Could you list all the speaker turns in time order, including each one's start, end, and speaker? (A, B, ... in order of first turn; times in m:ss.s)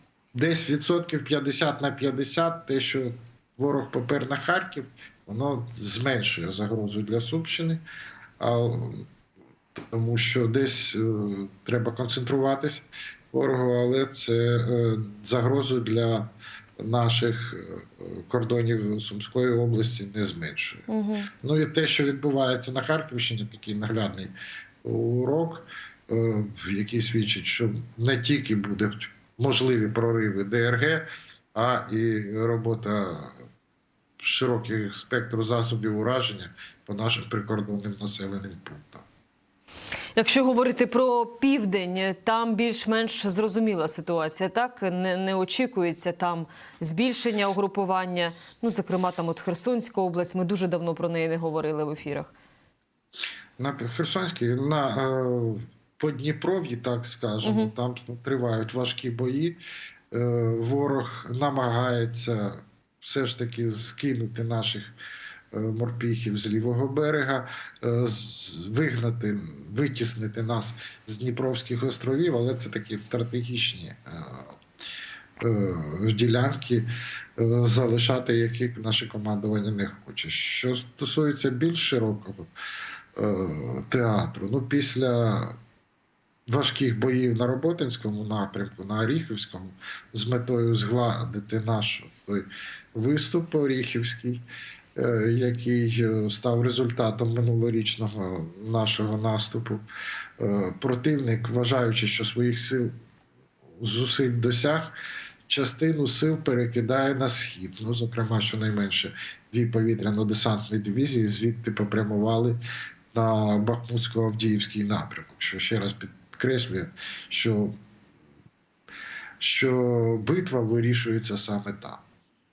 0:00.4-0:07.8 A
0:08.4-0:09.1 A
0:09.8-0:20.8 A
0:20.9-0:21.3 B
0:21.4-0:24.3 A
0:24.8-0:33.4 A
0:34.2-0:39.0 A
0:40.2-0:52.3 B
0:53.6-0:59.6 A
0:57.4-0:57.7 B
1:00.1-1:04.9 A
1:05.5-1:14.6 A
1:15.4-1:22.5 A
1:23.2-1:25.6 A
1:26.5-1:34.4 A
1:35.0-1:39.8 A
1:40.4-1:42.9 A
1:43.8-1:45.0 A
1:45.5-1:52.6 A
1:53.1-1:57.8 A
1:59.4-2:02.0 A